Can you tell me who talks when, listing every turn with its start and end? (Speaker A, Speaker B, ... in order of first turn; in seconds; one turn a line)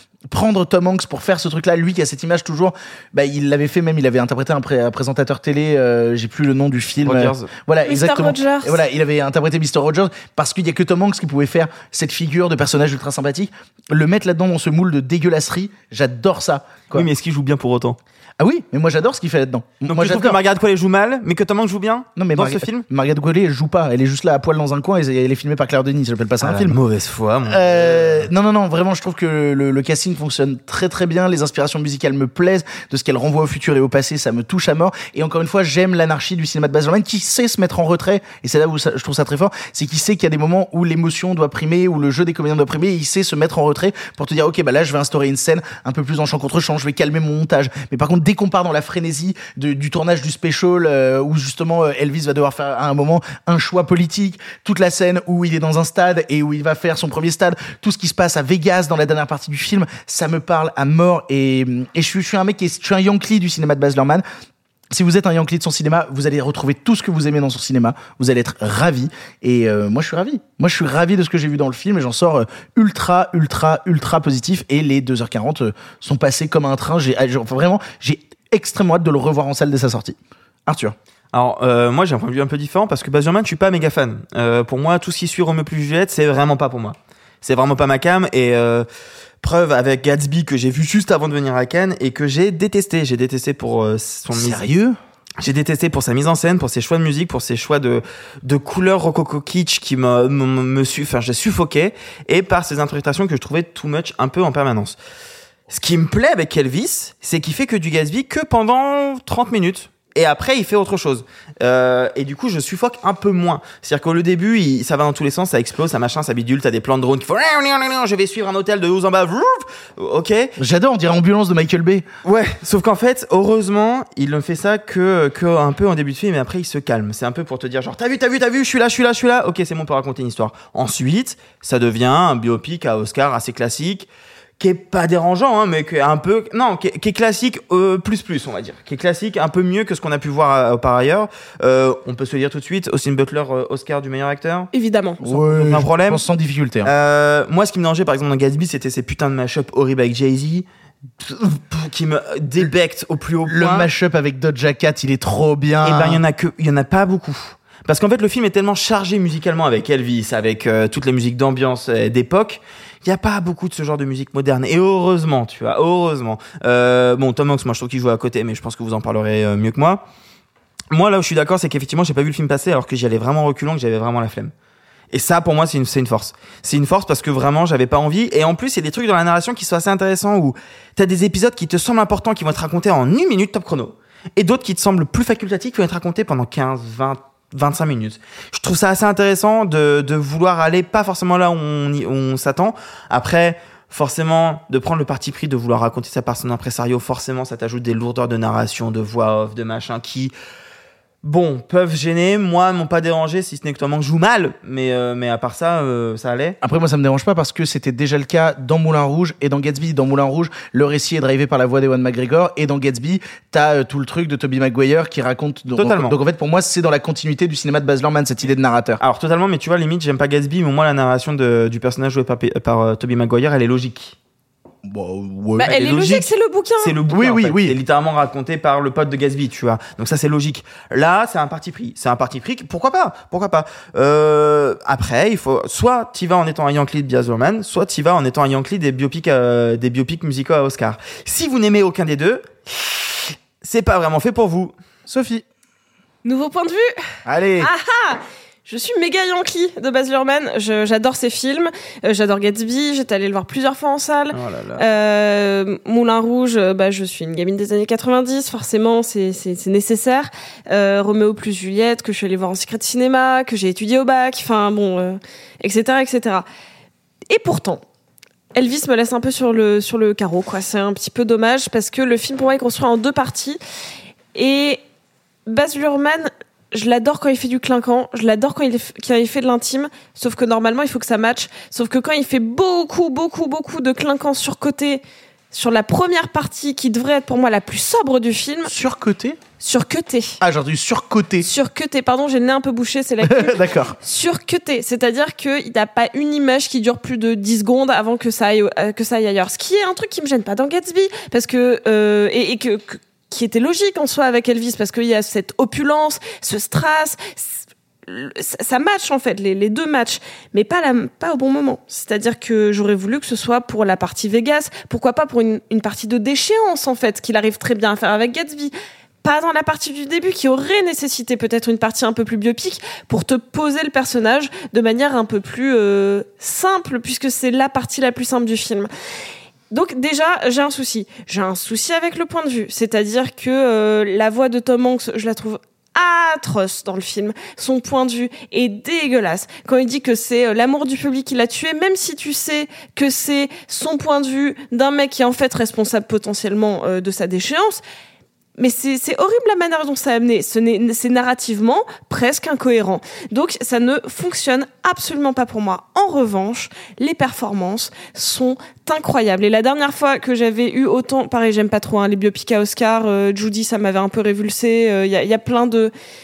Speaker A: 0.3-17.1
Speaker B: 7.0-7.5
Speaker C: 7.8-8.8
Speaker B: 16.9-18.0
Speaker A: 18.4-20.4
Speaker B: 19.9-22.8
Speaker A: 22.2-26.8
Speaker B: 26.4-28.3
Speaker A: 27.5-64.2
Speaker A: 64.9-81.0
Speaker B: 81.3-88.9
Speaker B: 89.4-94.7
Speaker A: 94.3-95.0
Speaker B: 95.4-105.0
Speaker B: 105.7-120.5
Speaker A: 120.6-122.1
Speaker B: 122.2-134.1
Speaker B: 134.6-144.7
Speaker C: 144.7-145.2
Speaker A: 145.2-146.9
Speaker B: 145.3-146.2
Speaker B: 146.8-150.7
Speaker B: 151.2-153.9
Speaker A: 153.5-156.2
Speaker B: 155.8-170.0
Speaker B: 170.9-174.5
Speaker B: 175.1-200.3
Speaker B: 201.2-206.6
Speaker A: 206.6-219.0
Speaker B: 215.8-216.2
Speaker B: 219.0-224.2
Speaker A: 224.8-225.8
Speaker C: 225.6-226.9
Speaker B: 225.7-243.0
Speaker A: 227.1-227.8
Speaker B: 243.6-244.7
Speaker A: 245.1-245.4
Speaker C: 246.2-246.9
Speaker A: 247.3-247.7
Speaker C: 247.6-266.5
Speaker B: 254.3-254.8
Speaker C: 267.3-267.8
Speaker C: 268.6-273.6
Speaker C: 274.4-274.8
Speaker C: 275.5-288.7
Speaker A: 288.6-289.4
Speaker C: 289.6-290.4
Speaker A: 290.4-291.5
Speaker C: 291.4-318.7
Speaker A: 293.2-294.0
Speaker C: 319.2-328.9
Speaker C: 329.7-347.8
Speaker C: 348.6-365.9